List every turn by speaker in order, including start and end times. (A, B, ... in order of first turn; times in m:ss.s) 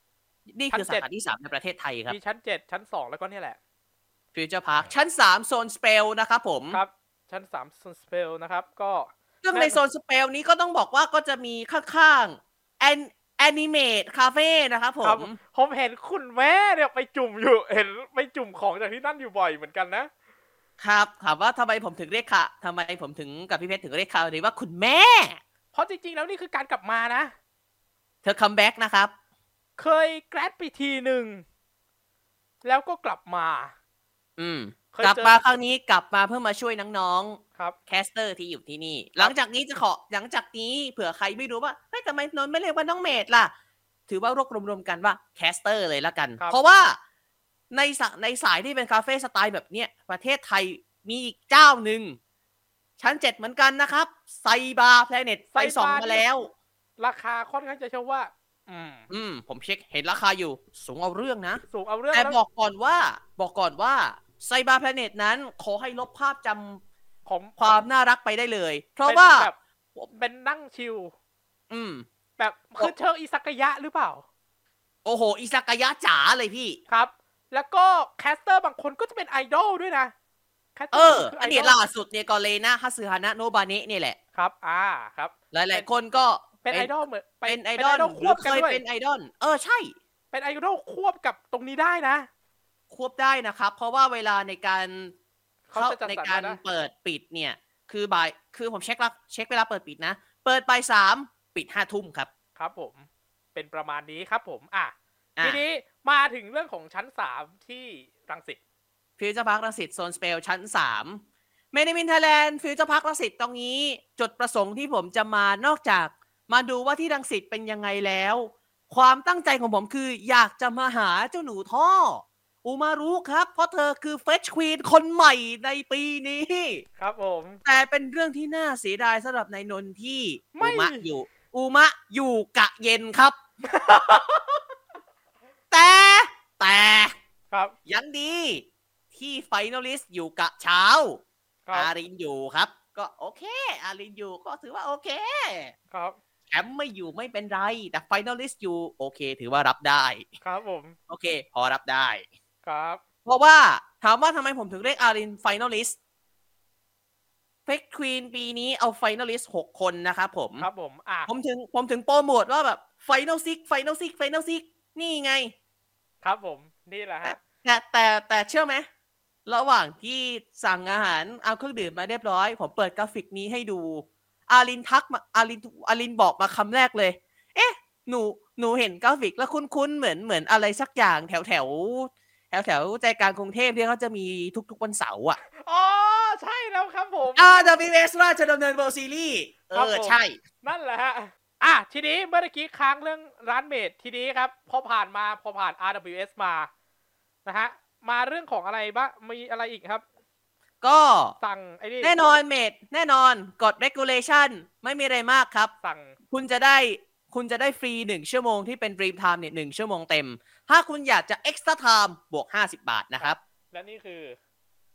0:00.5-0:02.2 A
0:00.7-0:01.1 B
0:02.1-0:03.6 B
0:04.3-0:06.8 A
0:06.7-0:09.8 B
0:09.4-0:15.4 A
0:15.0-0:20.1 B
0:20.8-0:25.4 A
0:25.7-0:27.3 B
0:28.2-0:29.1 A
0:29.8-0:31.4 B
0:32.6-0:33.7 B
0:34.4-0:43.5 A
0:34.9-0:35.4 B
0:44.1-0:47.0 A
0:46.4-0:46.9 B
0:47.7-0:52.2 A
0:53.0-0:56.5 A
0:55.6-0:56.2 B
0:57.0-0:59.1 B
0:59.1-1:06.8 A
1:01.6-1:02.4 B
1:07.3-1:07.8 B
1:07.6-1:09.5 A
1:09.1-1:11.1 B
1:11.7-1:12.1 A
1:12.4-1:14.2 B
1:15.0-1:16.8 A
1:16.9-1:20.1 B
1:20.8-1:21.8 B
1:20.9-1:24.2 A
1:24.4-1:25.9 B
1:25.5-1:26.9 A
1:26.6-1:28.8 B
1:27.4-1:30.0 A
1:30.3-1:32.3 B
1:32.9-1:35.1 A
1:35.7-1:36.6 B
1:35.8-1:42.3 A
1:42.6-1:48.6 B
1:49.2-2:06.8 A
2:07.0-2:07.6 B
2:07.6-2:13.4 A
2:10.6-2:11.0 B
2:13.6-2:14.6 B
2:15.7-2:17.1 A
2:17.5-2:17.8 B
2:17.9-2:25.7 A
2:25.9-2:26.2 B
2:26.5-2:30.3 A
2:30.4-2:31.0 B
2:31.1-2:32.3 A
2:32.6-2:33.0 B
2:33.2-2:36.0 A
2:37.6-2:40.7 A
2:40.6-2:41.3 B
2:41.3-2:45.5 A
2:46.2-2:47.4 B
2:47.2-2:48.9 A
2:49.5-3:05.4 A
3:05.6-3:07.6 B
3:07.4-3:10.4 A
3:09.7-3:16.7 B
3:17.5-3:20.0 B
3:20.8-3:21.4 A
3:21.4-3:22.1 B
3:22.0-3:25.7 A
3:25.8-3:26.2 B
3:26.3-3:33.4 A
3:33.2-3:34.4 B